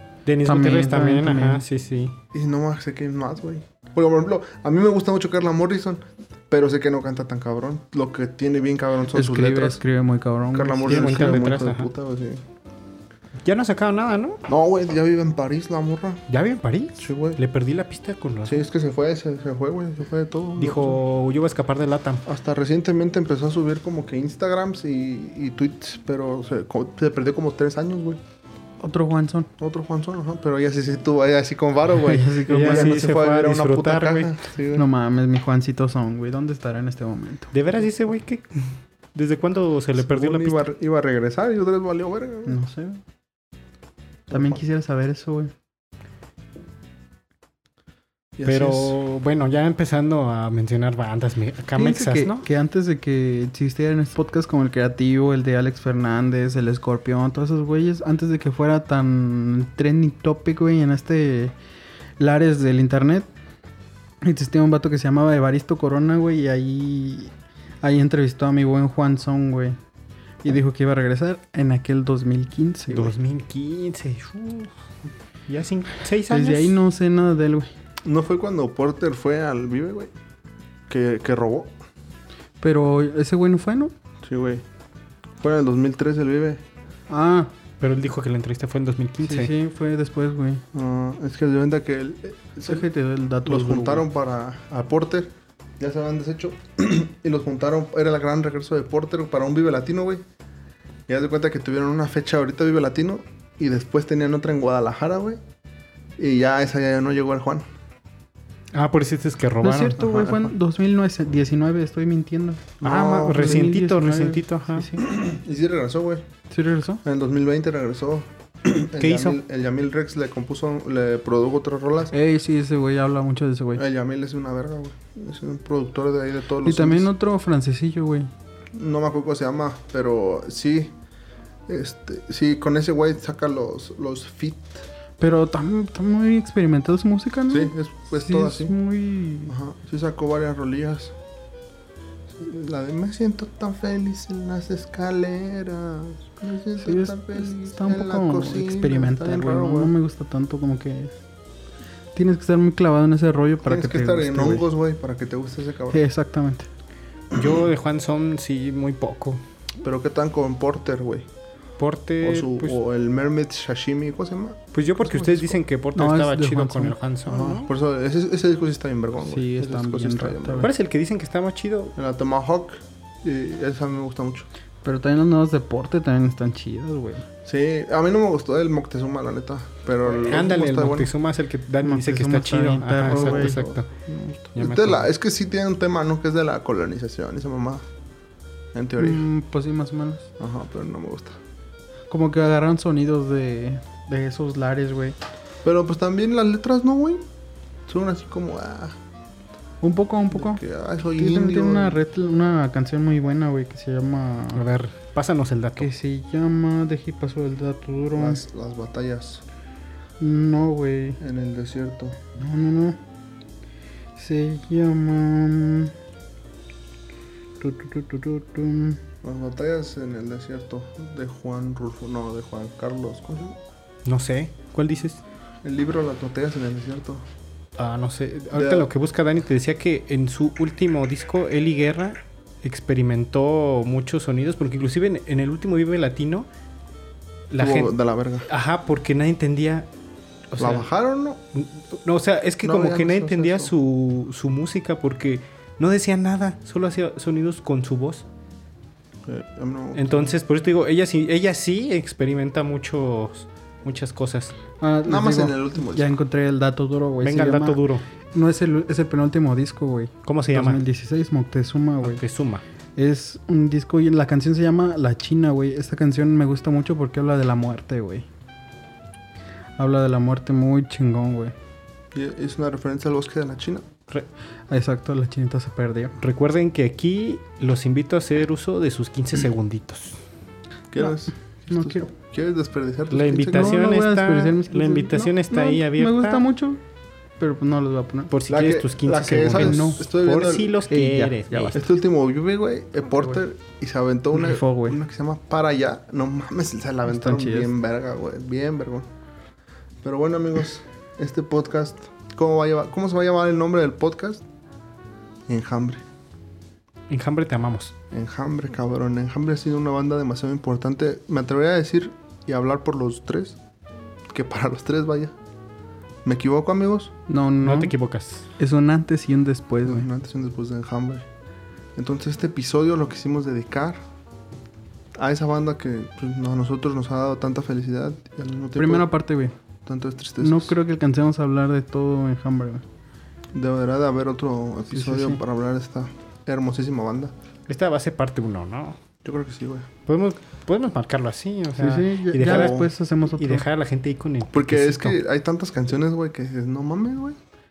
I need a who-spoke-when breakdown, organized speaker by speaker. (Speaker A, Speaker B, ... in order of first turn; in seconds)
Speaker A: 0.2-2.1, 10.8-11.9, 13.4-14.4, 16.3-18.6, 20.6-22.2, 32.5-34.4, 37.5-40.6, 48.4-52.5, 72.9-74.7, 75.5-76.8, 87.8-89.5, 108.7-110.0, 112.8-114.9, 119.0-119.4, 157.3-159.4, 161.8-162.8, 164.7-167.7, 170.6-171.9, 180.2-184.0, 184.5-185.1, 204.5-205.9, 224.0-225.2, 227.8-236.5, 237.5-237.9, 238.5-239.9, 240.5-240.9, 241.5-248.2, 249.9-254.5, 257.2-258.0, 260.2-260.8, 262.0-262.6, 276.2-280.2, 283.1-286.4, 288.3-291.8, 307.1-307.9, 317.6-318.5, 337.7-339.0, 340.1-345.2
Speaker B: 0.4-1.6, 9.1-11.5, 28.8-29.5, 31.9-33.0, 34.7-37.5, 42.5-43.0, 44.3-45.5, 51.7-61.5, 62.2-63.3, 64.2-69.8, 70.4-73.1, 76.3-77.7, 82.6-83.9, 87.1-87.5, 89.2-90.6, 92.7-94.0, 109.6-115.1, 116.5-117.0, 122.1-123.8, 126.6-128.3, 135.2-139.5, 146.8-151.1, 152.1-154.6, 155.9-156.7, 165.9-167.0, 169.2-170.7, 174.8-177.2, 181.8-183.6, 189.0-190.3, 192.1-195.2, 199.8-200.6, 201.1-204.6, 205.8-208.4, 210.2-211.2, 212.3-213.0, 214.2-215.9, 217.6-219.0, 254.8-257.8, 258.3-262.2, 262.9-268.3, 269.8-271.5, 274.7-276.1, 281.7-282.1, 283.5-286.8, 287.4-288.3, 289.5-290.0, 290.9-291.9, 294.3-295.0, 297.1-297.7, 317.3-317.9, 318.6-320.1, 328.8-329.6, 330.4-332.8, 334.9-335.4, 341.8-343.6
Speaker C: 2.3-9.8, 10.5-12.4, 14.5-16.2, 17.0-17.4, 18.4-21.0, 22.2-28.2, 29.6-34.9, 40.0-42.6, 44.3-44.6, 48.4-49.0, 78.0-80.1, 80.9-81.7, 84.2-84.6, 85.4-86.6, 90.7-92.8, 93.4-100.2, 101.1-105.4, 106.2-107.7, 110.0-110.5, 112.8-113.7, 115.0-116.2, 117.0-122.1, 123.8-127.1, 128.7-130.9, 131.7-134.8, 137.5-138.7, 139.5-141.1, 142.3-149.9, 153.6-156.0, 159.8-161.3, 162.2-165.6, 167.2-170.7, 171.9-174.5, 177.4-181.1, 183.0-187.9, 188.7-189.2, 190.4-191.4, 195.6-197.2, 197.9-199.0, 200.3-202.0, 208.2-209.4, 211.2-212.2, 219.2-223.6, 225.6-227.2, 228.5-228.9, 237.6-238.5, 240.6-241.4, 242.6-243.7, 249.2-250.3, 255.1-256.1, 272.1-273.9, 280.9-283.8, 288.5-290.8, 291.7-299.1, 300.0-304.4, 305.5-306.0, 308.1-313.6, 314.3-315.4, 316.2-317.1, 319.8-321.2, 321.9-324.0, 325.1-329.1, 329.8-330.8, 333.5-337.3, 339.2-339.9, 342.4-342.9, 344.5-347.4